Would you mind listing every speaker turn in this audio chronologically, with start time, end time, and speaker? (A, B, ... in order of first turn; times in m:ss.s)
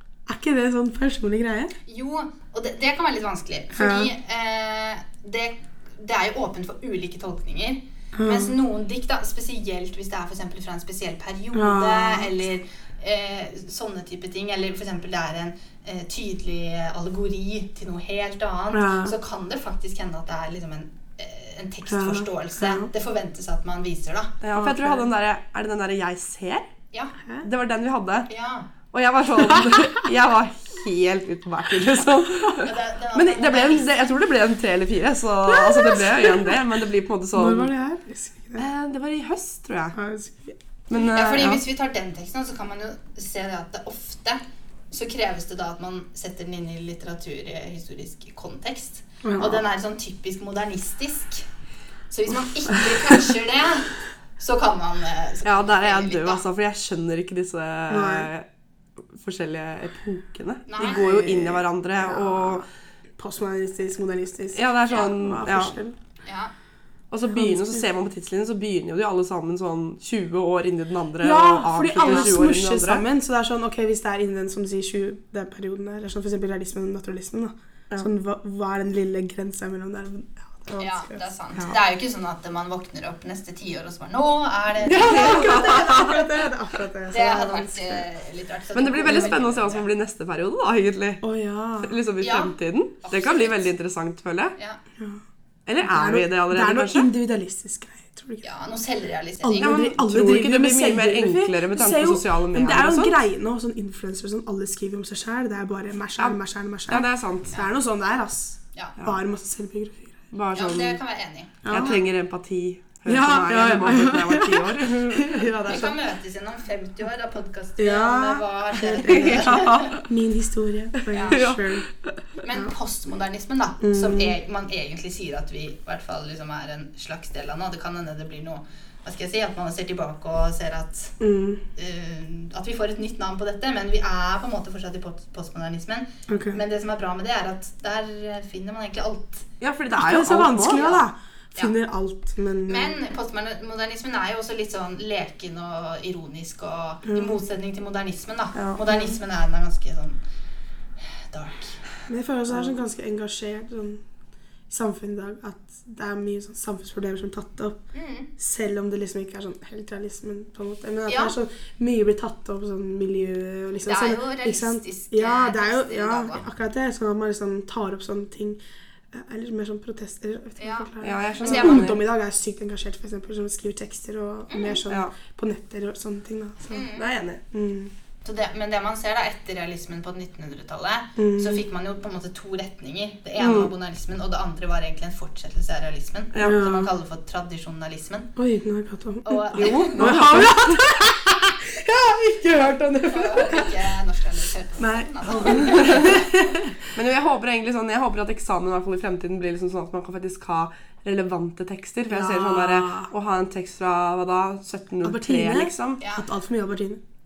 0:00.3-0:01.7 A
0:01.9-0:24.4 B
0:03.8-0:04.1 A
0:08.2-0:08.6 A
0:11.5-0:12.4 A
0:18.7-0:19.2 A
0:21.9-0:22.9 A
0:24.4-0:26.7 C
0:24.5-0:25.1 A
0:27.4-0:28.3 C
0:28.3-0:28.7 B
0:28.9-0:37.7 C
0:32.6-0:34.0 B
0:35.5-0:36.6 A
0:37.3-0:38.7 A
0:38.6-0:40.0 C
0:39.9-0:40.6 A
0:40.9-0:41.6 C
0:41.1-0:51.4 B
0:49.2-0:49.6 A
0:52.1-0:56.4 B
0:55.4-0:58.5 C
0:57.9-0:58.3 A
0:59.1-1:02.7 C
1:00.7-1:01.0 B
1:00.8-1:02.6 A
1:03.2-1:06.0 A
1:04.5-1:05.8 C
1:06.2-1:06.5 B
1:07.1-1:13.0 C
1:07.3-1:07.8 A
1:11.2-1:21.8 A
1:20.8-1:26.3 B
1:24.8-1:28.1 A
1:24.9-1:26.2 C
1:27.1-1:29.9 B
1:28.8-1:31.3 C
1:29.1-1:29.3 A
1:31.2-1:32.0 A
1:31.8-1:34.6 C
1:32.2-1:33.7 B
1:35.7-1:37.1 C
1:35.8-1:38.4 A
1:38.4-1:39.8 B
1:39.4-1:50.2 A
1:39.6-1:43.2 C
1:46.2-1:47.6 C
1:50.3-1:51.0 C
1:50.6-1:52.0 B
1:51.6-1:52.0 A
1:51.7-1:55.5 C
1:53.1-1:56.0 A
1:55.7-1:59.9 B
1:57.8-2:01.9 A
1:59.0-2:00.0 C
2:01.1-2:01.4 B
2:01.3-2:01.9 C
2:02.4-2:11.2 B
2:03.8-2:04.4 A
2:11.2-2:11.6 A
2:11.8-2:19.4 B
2:16.3-2:16.6 A
2:19.6-2:20.8 C
2:20.0-2:23.0 A
2:20.6-2:21.7 B
2:22.7-2:30.2 B
2:27.0-2:27.4 A
2:28.9-2:29.2 A
2:31.2-2:31.8 B
2:32.1-2:34.0 A
2:34.7-2:37.8 A
2:37.9-2:38.3 B
2:38.4-2:48.6 A
2:41.1-2:41.3 B
2:43.9-2:46.5 B
2:49.1-2:56.9 A
2:50.6-2:51.9 B
2:51.0-2:52.0 C
2:54.5-2:54.8 B
2:54.9-2:55.1 C
2:56.7-2:57.1 B
2:57.0-2:57.4 C
2:57.5-2:57.9 A
2:58.2-3:08.3 B
3:01.2-3:01.6 A
3:03.4-3:03.7 C
3:06.3-3:06.6 C
3:06.4-3:06.9 A
3:08.4-3:13.9 A
3:09.2-3:10.2 B
3:09.6-3:10.8 C
3:13.1-3:16.3 B
3:14.8-3:16.9 A
3:15.6-3:16.2 C
3:16.9-3:26.0 C
3:22.1-3:23.1 A
3:25.0-3:27.0 A